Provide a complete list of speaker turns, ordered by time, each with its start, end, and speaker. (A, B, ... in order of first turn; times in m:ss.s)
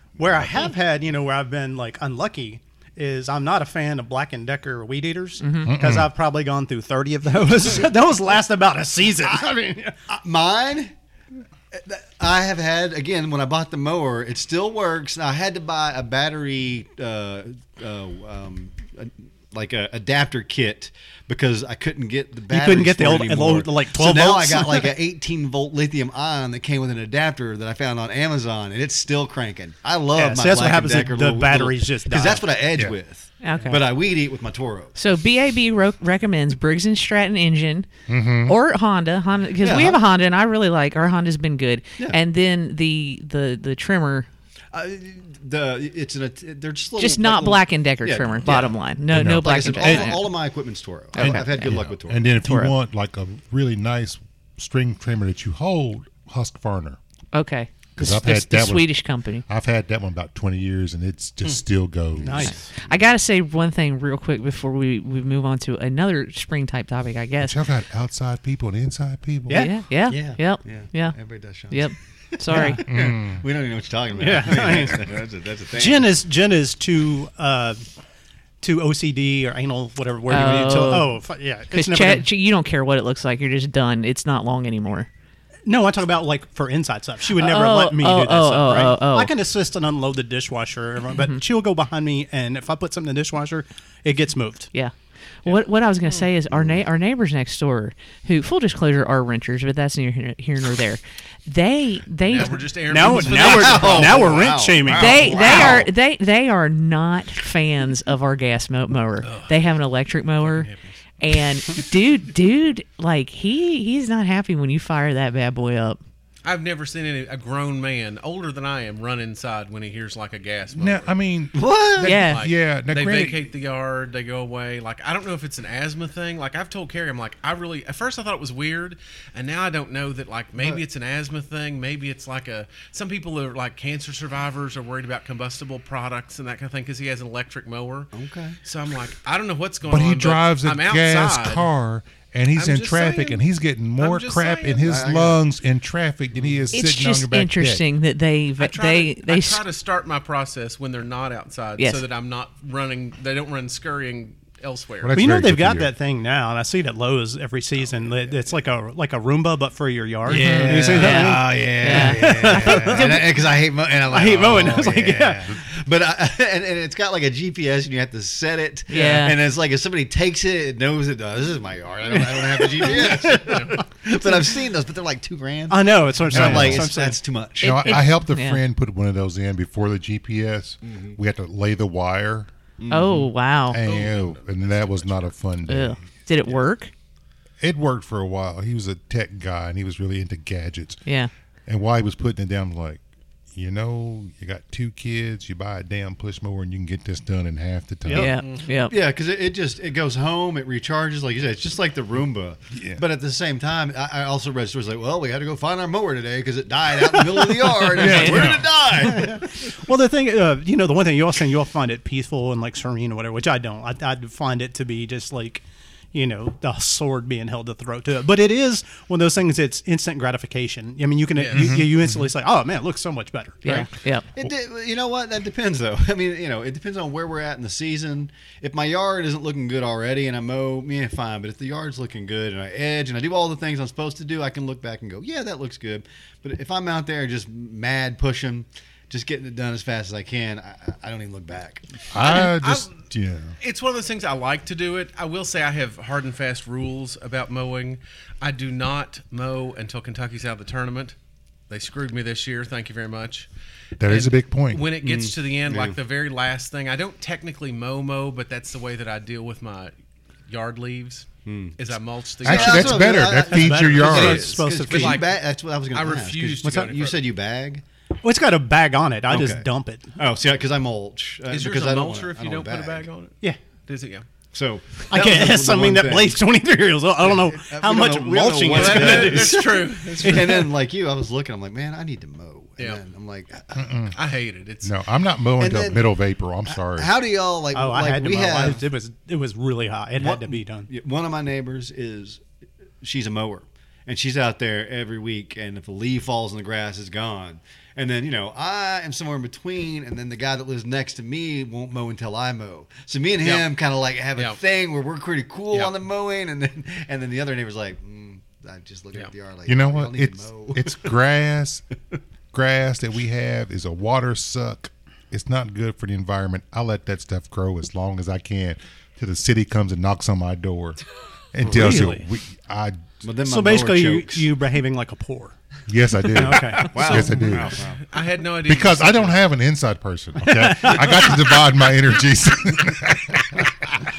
0:00.2-0:10.0 A
0:05.4-0:05.7 B
0:05.6-0:06.1 C
0:10.1-0:10.9 D
0:11.7-0:34.9 D
0:22.5-0:24.9 A
0:30.1-0:32.4 A
0:33.4-0:33.8 B
0:34.9-0:37.9 B
0:38.1-0:38.6 C
0:38.4-0:44.3 B
0:39.6-0:40.0 D
0:44.7-0:52.3 D
0:47.0-0:50.3 B
0:49.1-0:49.6 C
0:49.7-0:50.2 A
0:51.1-0:51.8 B
0:51.2-0:57.0 C
0:52.4-0:52.7 B
0:57.3-0:59.4 B
0:58.0-0:58.9 C
0:59.4-1:02.6 C
1:02.2-1:02.7 A
1:02.4-1:07.6 B
1:07.4-1:09.7 C
1:09.5-1:09.8 A
1:09.5-1:11.2 B
1:10.1-1:11.9 D
1:11.7-1:12.8 B
1:12.5-1:12.8 A
1:12.6-1:16.1 D
1:12.9-1:13.4 C
1:14.2-1:15.0 A
1:15.7-1:17.8 A
1:18.6-1:22.3 A
1:20.3-1:21.2 B
1:21.7-1:25.1 B
1:25.6-1:34.7 A
1:27.4-1:29.3 B
1:34.7-1:42.7 B
1:42.2-1:44.4 E
1:42.9-1:45.8 A
1:43.1-1:45.9 D
1:44.9-1:50.7 B
1:49.2-1:49.6 E
1:50.4-1:51.0 E
1:51.2-1:56.0 B
1:56.4-2:01.1 E
2:00.8-2:03.4 C
2:01.5-2:02.2 D
2:02.0-2:02.4 B
2:02.2-2:18.1 E
2:18.1-2:18.6 D
2:18.6-2:21.6 E
2:19.8-2:27.8 C
2:22.5-2:23.4 E
2:24.0-2:24.8 E
2:24.8-2:25.4 D
2:26.3-2:26.6 D
2:26.7-2:29.6 B
2:28.6-2:35.2 E
2:35.0-2:35.9 C
2:35.1-2:43.3 A
2:40.2-2:58.0 D
2:40.3-2:41.0 C
2:40.6-2:43.2 B
2:44.1-2:45.5 A
2:48.9-2:49.4 B
2:48.9-2:49.3 A
2:52.2-2:53.8 A
2:52.9-2:53.8 E
2:55.7-2:57.2 A
2:56.3-2:56.9 C
2:57.6-2:58.6 B
2:57.6-3:02.5 C
3:00.8-3:01.2 D
3:02.8-3:03.3 D
3:02.9-3:03.8 B
3:03.7-3:06.0 C
3:03.8-3:05.3 E
3:05.7-3:06.9 B
3:07.6-3:11.0 C
3:11.7-3:13.0 C
3:13.5-3:18.3 C
3:18.0-3:18.4 A
3:18.1-3:18.9 B
3:18.4-3:18.7 E
3:18.8-3:29.7 D
3:22.7-3:23.0 C
3:28.0-3:28.7 C
3:28.0-3:28.5 B
3:28.0-3:43.9 A
3:41.4-3:41.8 E
3:41.5-3:42.2 C
3:43.6-3:44.2 B
3:44.4-4:01.8 D
4:02.1-4:03.6 C
4:02.2-4:02.9 E
4:03.6-4:11.1 E
4:11.7-4:13.5 E
4:14.0-4:14.8 C
4:14.0-4:19.9 E
4:15.0-4:16.0 D
4:20.5-4:23.2 E
4:21.4-4:21.8 D
4:22.4-4:27.8 D
4:22.4-4:24.6 C
4:23.5-4:25.2 A
4:24.0-4:25.4 E
4:25.9-4:27.2 E
4:26.6-4:26.9 A
4:28.2-4:30.2 A
4:29.3-4:33.1 D
4:31.5-4:34.2 E
4:34.5-4:36.4 D
4:35.1-4:40.7 A
4:37.2-4:43.9 D
4:38.7-4:40.7 E
4:43.7-4:44.2 C
4:44.1-4:44.9 E
4:44.8-4:47.1 C
4:45.6-4:46.0 D
4:46.7-4:48.8 D
4:47.7-4:50.9 A
4:50.2-4:52.4 D
4:53.0-5:11.1 D
5:03.4-5:03.7 E
5:05.7-5:06.0 E
5:09.7-5:11.8 C
5:12.5-5:21.0 C
5:21.5-5:23.0 C
5:21.6-5:22.2 A
5:23.2-5:24.5 D
5:23.4-5:25.5 A
5:25.9-5:27.8 C
5:26.3-5:27.3 A
5:26.7-5:28.0 D
5:28.0-5:29.4 E
5:28.6-5:33.6 C
5:30.5-5:31.0 A